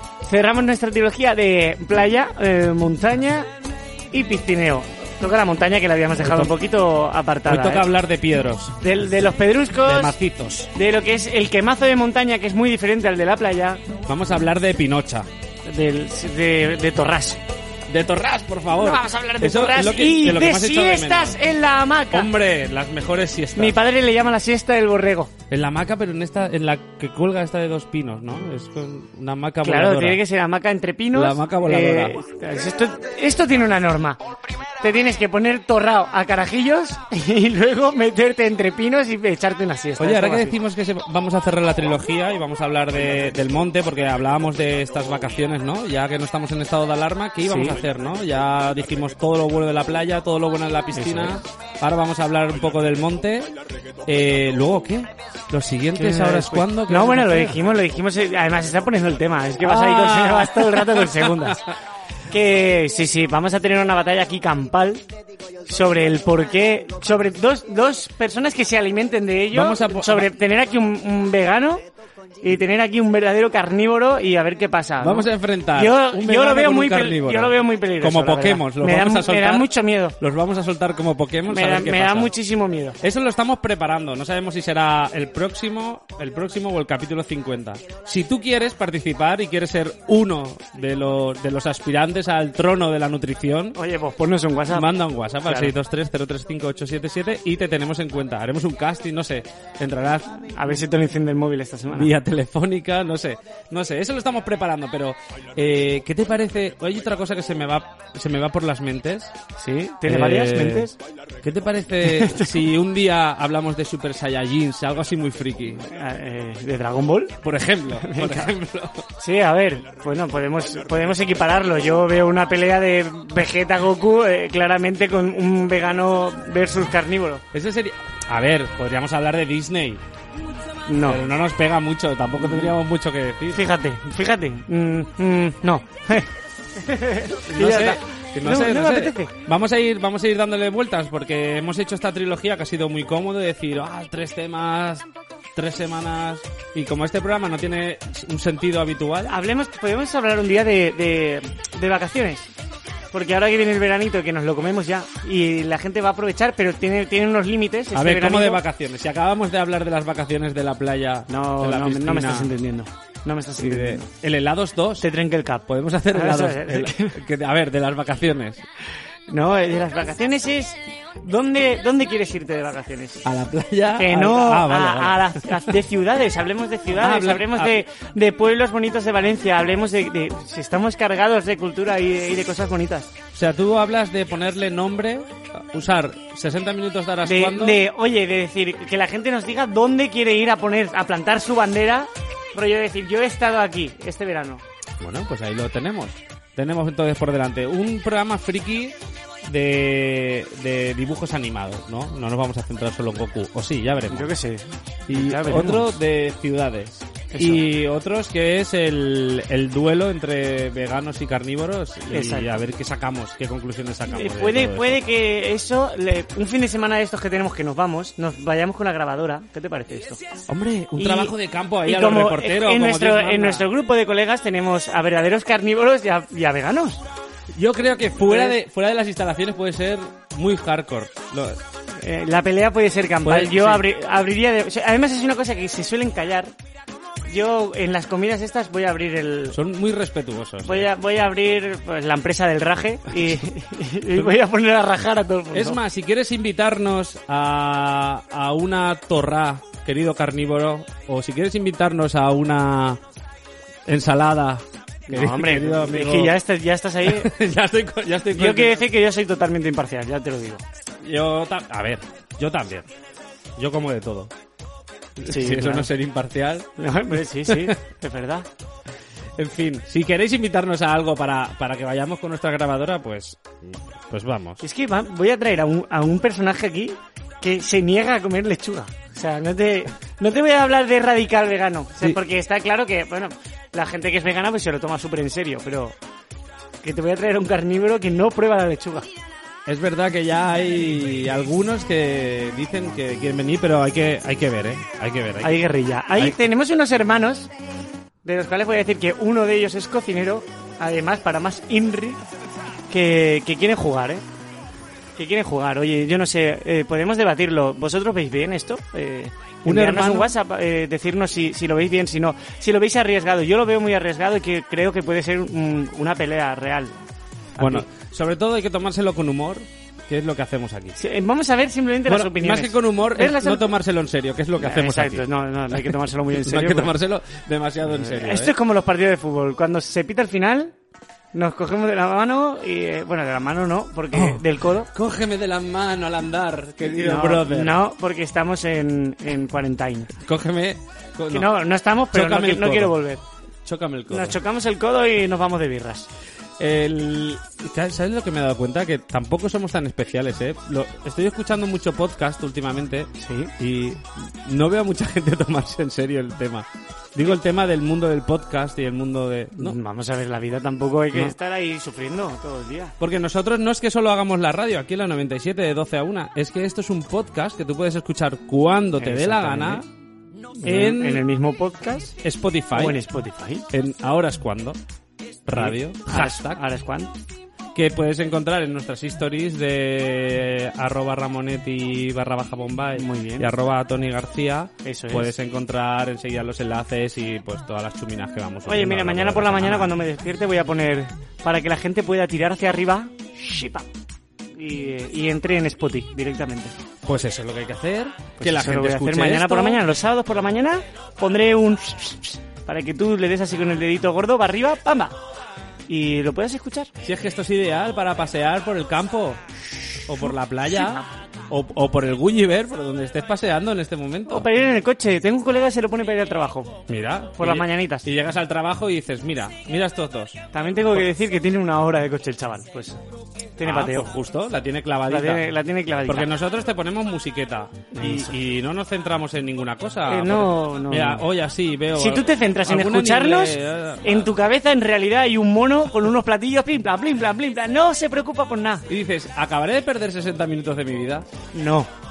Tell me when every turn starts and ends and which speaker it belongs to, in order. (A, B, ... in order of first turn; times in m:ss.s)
0:00.2-0:03.5 A
0:04.1-0:07.9 A
0:06.2-0:06.5 B
0:07.4-0:08.7 B
0:08.8-0:10.2 A
0:09.8-0:10.7 B
0:10.7-0:13.8 A
0:14.1-0:15.3 B
0:15.6-0:17.4 A
0:17.9-0:21.4 B
0:18.8-0:22.3 A
0:22.1-0:23.8 B
0:23.6-0:25.3 A
0:25.5-0:30.2 B
0:29.6-0:34.2 A
0:31.1-0:32.2 B
0:34.8-0:40.6 A
0:40.0-0:57.7 B
0:47.4-0:47.8 A
0:50.9-0:51.4 A
0:56.0-1:01.6 A
0:59.6-1:01.6 B
1:02.3-1:05.0 A
1:05.6-1:11.8 A
1:09.5-1:10.3 B
1:12.4-1:20.2 A
1:15.0-1:22.3 B
1:21.5-1:23.0 A
1:23.0-1:33.8 B
1:33.7-1:35.7 A
1:34.7-1:40.5 B
1:40.4-1:42.1 A
1:41.9-1:49.3 B
1:49.6-1:51.0 A
1:50.0-1:55.8 B
1:52.2-1:52.5 A
1:55.8-1:57.4 A
1:57.4-1:59.1 B
1:58.0-1:58.5 A
1:59.2-2:07.4 A
2:07.5-2:10.0 B
2:10.8-2:11.2 A
2:11.0-2:13.7 B
2:12.4-2:12.7 A
2:13.5-2:19.3 A
2:17.5-2:29.3 B
2:29.3-2:32.5 A
2:33.1-2:38.6 A
2:37.9-2:42.5 B
2:41.3-2:44.0 A
2:43.6-2:45.1 B
2:45.0-2:47.2 A
2:45.7-2:48.6 B
2:49.3-2:53.2 A
2:53.2-2:55.4 B
2:54.0-3:03.1 A
2:56.9-2:57.8 B
3:03.3-3:07.8 B
3:07.2-3:14.6 A
3:15.0-3:24.3 B
3:24.1-3:25.9 A
3:25.1-3:35.0 B
3:27.3-3:27.6 A
3:32.1-3:32.6 A
3:34.1-3:40.2 A
3:40.5-3:43.7 B
3:41.0-3:47.0 A
3:47.5-3:51.6 B
3:48.2-3:48.6 A
3:51.9-3:56.5 A
3:53.2-3:53.9 B
3:57.3-3:59.6 A
3:59.5-4:00.9 B
4:00.6-4:05.8 A
4:05.5-4:13.0 B
4:13.8-4:16.4 B
4:15.1-4:17.3 A
4:17.0-4:18.9 B
4:18.3-4:20.6 A
4:21.0-4:22.9 B
4:23.6-4:24.3 B
4:25.2-4:26.8 B
4:25.2-4:25.9 A
4:26.8-4:28.5 A
4:27.4-4:27.8 B
4:29.4-4:34.6 B
4:34.6-4:46.0 A
4:46.8-4:49.1 A
4:49.6-4:55.6 B
4:55.4-4:57.5 A
4:58.2-5:02.2 A
5:02.9-5:04.2 A
5:05.2-5:17.0 A
5:09.6-5:10.3 B
5:17.6-5:17.9 A
5:17.6-5:21.0 B
5:21.0-5:23.7 A
5:22.0-5:28.6 B
5:24.6-5:27.0 A
5:27.9-5:30.7 A
5:31.3-5:34.9 A
5:34.1-5:37.8 B
5:36.8-5:40.1 A
5:40.2-5:43.0 B
5:41.3-5:43.2 A
5:43.6-5:44.4 B
5:44.1-5:46.1 A
5:46.6-5:59.8 B
5:53.2-5:53.5 A
5:59.6-6:02.9 A
6:03.0-6:09.9 B
6:09.0-6:09.8 A
6:10.6-6:12.2 A
6:10.6-6:11.2 B
6:12.2-6:13.0 B
6:12.7-6:13.7 A
6:13.7-6:14.8 B
6:15.4-6:16.6 B
6:15.5-6:17.1 A
6:17.7-6:29.9 B
6:23.0-6:23.5 A
6:24.8-6:25.3 A
6:28.7-6:33.8 A
6:34.5-6:36.7 A
6:37.0-6:39.8 B
6:38.4-6:45.2 A
6:45.9-6:46.9 A
6:47.0-6:49.4 B
6:50.0-6:54.5 B
6:54.3-6:56.8 A
6:56.9-7:00.4 B
6:57.4-6:58.1 A
7:00.5-7:03.0 A
7:03.6-7:04.1 A
7:03.6-7:14.3 B
7:05.1-7:06.3 A
7:07.9-7:08.3 A
7:10.1-7:11.3 A
7:11.9-7:18.9 A
7:18.9-7:21.3 B
7:21.5-7:21.9 A